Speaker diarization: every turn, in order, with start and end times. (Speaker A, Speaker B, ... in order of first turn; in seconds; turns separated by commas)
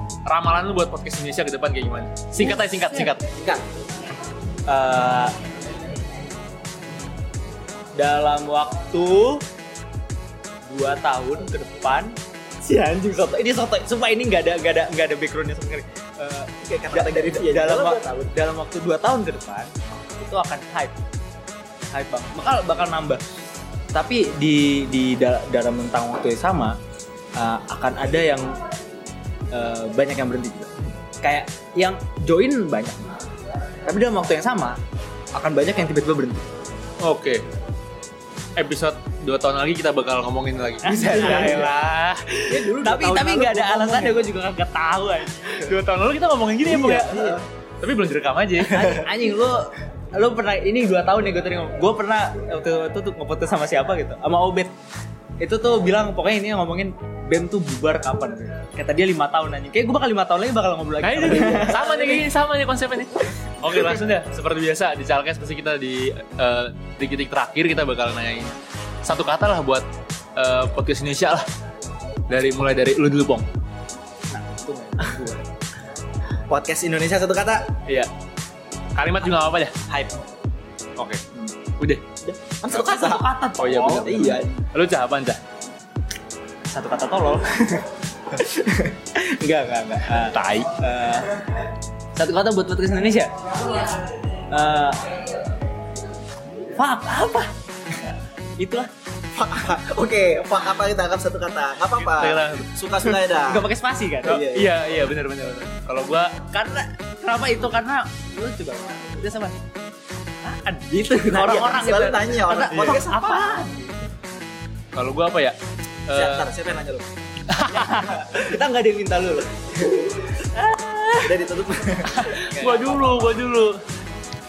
Speaker A: 0.3-3.2, Speaker B: 3.3-3.6, Speaker C: 4.7-5.3, Speaker C: 8.0-9.4, Speaker C: 10.7-21.0, Speaker B: 16.6-18.3, Speaker C: 21.8-23.2, Speaker C: 23.9-26.8, Speaker C: 27.4-28.5, Speaker C: 29.5-33.1, Speaker C: 33.9-34.8, Speaker C: 35.3-36.5, Speaker A: 37.0-37.4, Speaker A: 38.6-42.6, Speaker C: 40.8-41.7, Speaker B: 41.0-41.7, Speaker B: 42.5-44.2, Speaker C: 42.7-45.7, Speaker A: 45.5-49.0, Speaker B: 46.7-47.4, Speaker C: 46.7-47.4, Speaker C: 48.7-54.7, Speaker C: 55.4-62.2, Speaker A: 61.0-68.5, Speaker A: 69.0-69.8, Speaker A: 70.4-71.5, Speaker A: 72.3-73.5, Speaker C: 74.3-75.5, Speaker B: 76.5-77.8, Speaker A: 77.9-78.1, Speaker A: 79.0-79.8, Speaker B: 79.9-80.2, Speaker A: 81.0-81.2, Speaker B: 82.2-83.3, Speaker C: 82.7-84.4, Speaker A: 83.6-85.4, Speaker B: 84.0-84.6, Speaker C: 86.7-87.9, Speaker C: 88.4-91.3, Speaker A: 90.3-90.7, Speaker C: 92.2-93.9, Speaker C: 94.5-95.1, Speaker C: 96.7-97.5, Speaker C: 98.6-98.9, Speaker B: 99.3-103.7, Speaker A: 102.0-102.7, Speaker C: 103.5-104.4, Speaker B: 104.2-104.7, Speaker A: 104.3-106.4, Speaker C: 106.5-109.6, Speaker C: 110.4-113.9, Speaker B: 111.3-113.7, Speaker A: 114.9-115.6, Speaker A: 116.1-116.5, Speaker B: 116.1-117.1, Speaker A: 117.5-117.9, Speaker C: 117.7-121.4, Speaker B: 119.8-120.3, Speaker B: 121.2-123.2, Speaker A: 122.0-123.8